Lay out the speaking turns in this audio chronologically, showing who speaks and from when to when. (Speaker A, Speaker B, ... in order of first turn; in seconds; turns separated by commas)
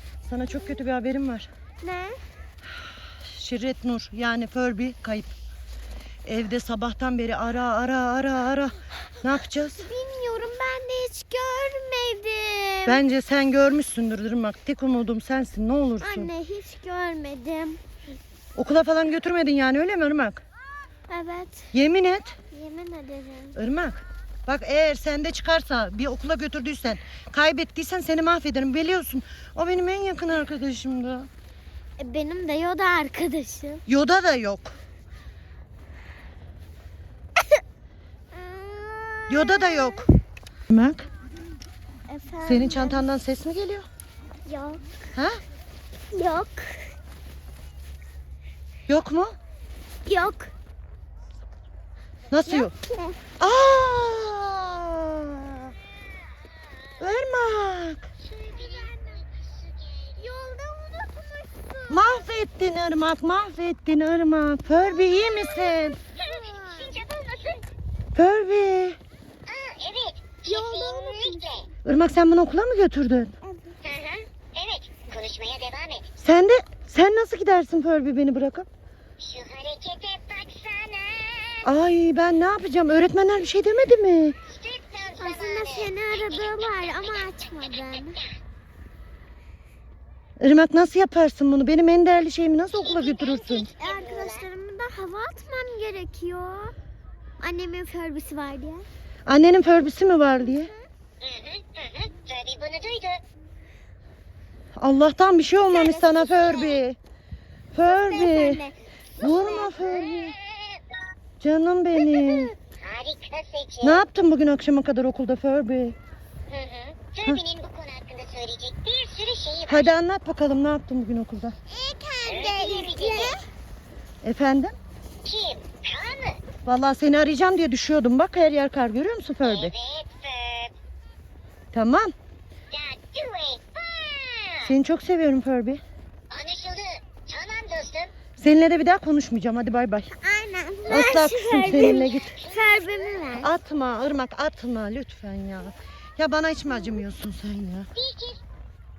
Speaker A: 0.2-1.5, Speaker B: 0.5-0.8, Speaker B: 1.8-2.2, Speaker A: 3.2-5.3, Speaker A: 6.3-9.9, Speaker B: 9.5-13.0, Speaker A: 12.8-16.3, Speaker B: 16.0-17.8, Speaker A: 18.6-20.4, Speaker B: 21.1-21.7, Speaker A: 21.7-22.4, Speaker B: 22.5-23.6, Speaker A: 23.6-31.3, Speaker B: 32.0-33.8, Speaker A: 33.9-34.8, Speaker B: 38.3-40.1, Speaker A: 39.3-40.1, Speaker A: 40.7-41.1, Speaker B: 42.1-43.0, Speaker A: 42.5-43.9, Speaker B: 44.5-44.8, Speaker A: 45.1-45.4, Speaker B: 46.1-46.9, Speaker A: 48.9-49.4, Speaker B: 50.1-50.5, Speaker A: 52.3-52.7, Speaker B: 52.5-53.2, Speaker A: 53.4-55.7, Speaker A: 57.0-58.1, Speaker C: 58.3-60.4, Speaker B: 58.5-59.2, Speaker B: 60.2-62.3, Speaker A: 61.9-66.0, Speaker B: 64.7-67.0, Speaker C: 66.2-67.7, Speaker A: 68.2-69.0, Speaker C: 69.5-71.7, Speaker B: 70.5-71.4, Speaker A: 71.8-73.3, Speaker B: 73.5-73.8, Speaker C: 73.8-76.1, Speaker A: 76.2-78.7, Speaker C: 79.2-81.7, Speaker A: 81.7-84.4, Speaker C: 84.5-88.3, Speaker B: 85.2-88.2, Speaker A: 90.4-93.7, Speaker C: 92.8-94.5, Speaker B: 93.8-96.7, Speaker B: 97.4-98.9, Speaker A: 99.3-100.7, Speaker B: 100.4-100.9, Speaker C: 101.2-103.2, Speaker A: 104.8-107.0, Speaker B: 105.7-106.7, Speaker C: 105.9-106.8, Speaker A: 107.7-108.6, Speaker B: 107.8-109.8, Speaker A: 109.2-110.4, Speaker C: 109.9-110.8, Speaker A: 111.4-112.5, Speaker B: 112.0-112.5, Speaker C: 112.8-114.0, Speaker A: 113.8-116.0, Speaker C: 116.5-119.9, Speaker A: 119.7-121.6, Speaker B: 121.7-123.5, Speaker C: 122.2-123.4, Speaker A: 124.2-124.8, Speaker C: 125.2-126.4, Speaker A: 126.7-129.7, Speaker C: 129.4-130.7, Speaker A: 131.7-132.1, Speaker C: 132.7-134.7, Speaker A: 134.6-135.8, Speaker C: 136.3-138.1, Speaker A: 138.4-140.1, Speaker B: 140.2-143.5, Speaker A: 140.9-142.3, Speaker C: 142.1-143.2, Speaker A: 143.3-147.9, Speaker C: 147.9-148.4